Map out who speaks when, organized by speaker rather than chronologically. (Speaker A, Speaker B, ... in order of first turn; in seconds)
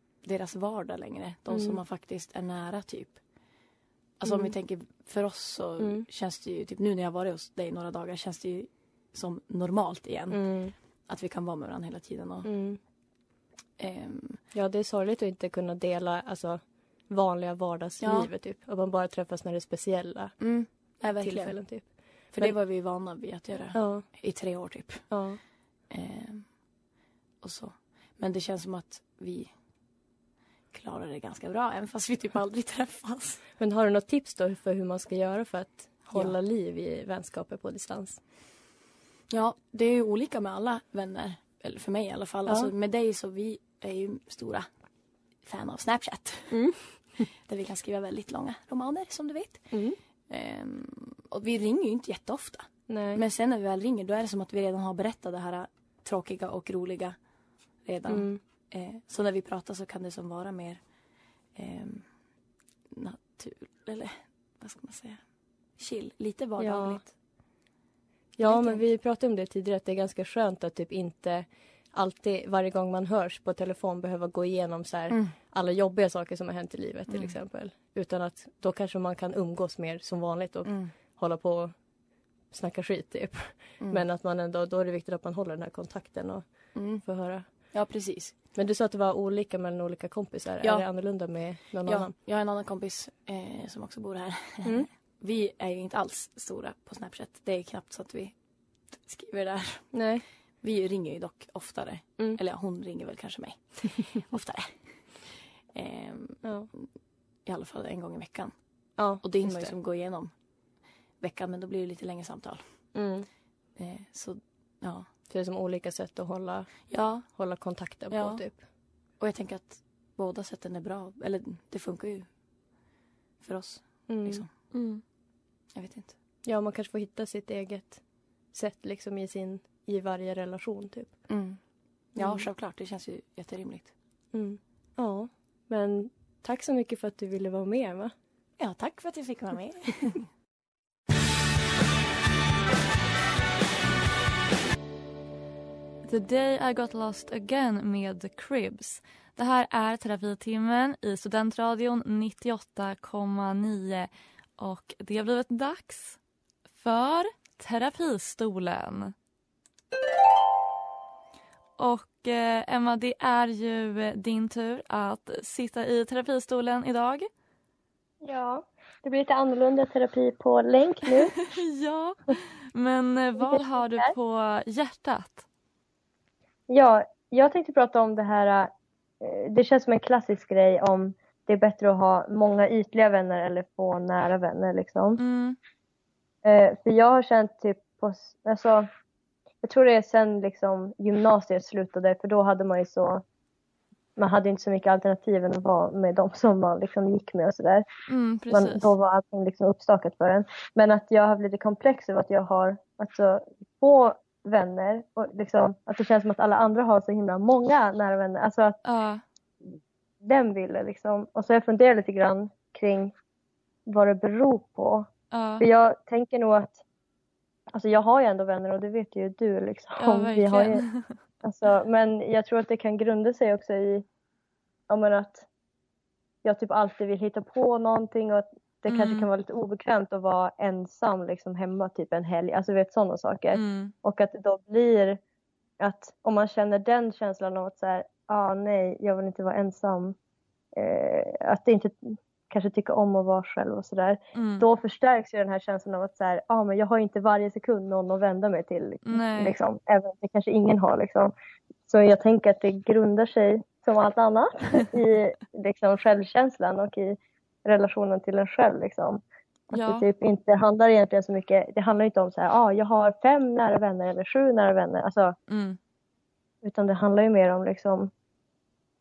Speaker A: 0.2-3.2, 4.2-12.8, 13.8-14.4, 18.0-18.3, 20.4-26.8, 27.4-29.6, 30.7-33.5, 36.1-36.4, 39.3-44.7, 45.4-57.2, 57.8-60.9, 61.4-62.2, 62.9-67.1, 68.4-68.9, 75.1-75.4, 77.1-77.3, 80.6-81.0, 86.7-88.5, 90.6-106.9, 107.4-113.0, 113.8-115.1, 116.9-122.3, 123.4-124.5, 125.7-126.2, 131.3-133.9, 138.6-140.3
Speaker B: 1.5-1.8, 4.2-4.5, 5.8-6.0, 10.3-10.7, 12.4-12.8, 14.5-25.4, 33.6-38.2, 42.5-42.7, 46.5-47.2, 49.7-50.0, 52.9-53.2, 58.1-58.4, 66.6-67.1, 68.4-81.7, 82.5-88.0, 88.5-92.1, 94.6-94.9, 99.9-100.2, 106.4-106.7, 109.0-109.7, 112.9-113.3, 115.3-118.6, 124.1-124.4, 126.4-131.2, 132.1-132.5, 134.3-138.1
Speaker C: 124.7-125.0, 146.0-156.2, 156.8-159.1, 161.8-167.3, 171.4-175.4, 185.2-185.6, 198.1-198.9, 208.8-209.2, 215.3-215.6, 220.0-221.2, 228.9-229.3, 233.5-233.9, 244.3-244.6, 249.1-249.5, 259.7-260.1, 265.5-265.8
Speaker D: 168.2-171.4, 173.4-174.1, 176.7-185.2, 186.4-188.9, 189.6-193.2, 194.2-197.8, 198.5-208.8, 210.2-213.1, 213.9-215.1, 215.6-216.8, 217.7-220.8, 221.4-224.0, 224.9-225.4, 226.4-235.2, 235.8-240.2, 240.7-251.3, 251.9-259.2, 259.7-265.3, 266.6-268.1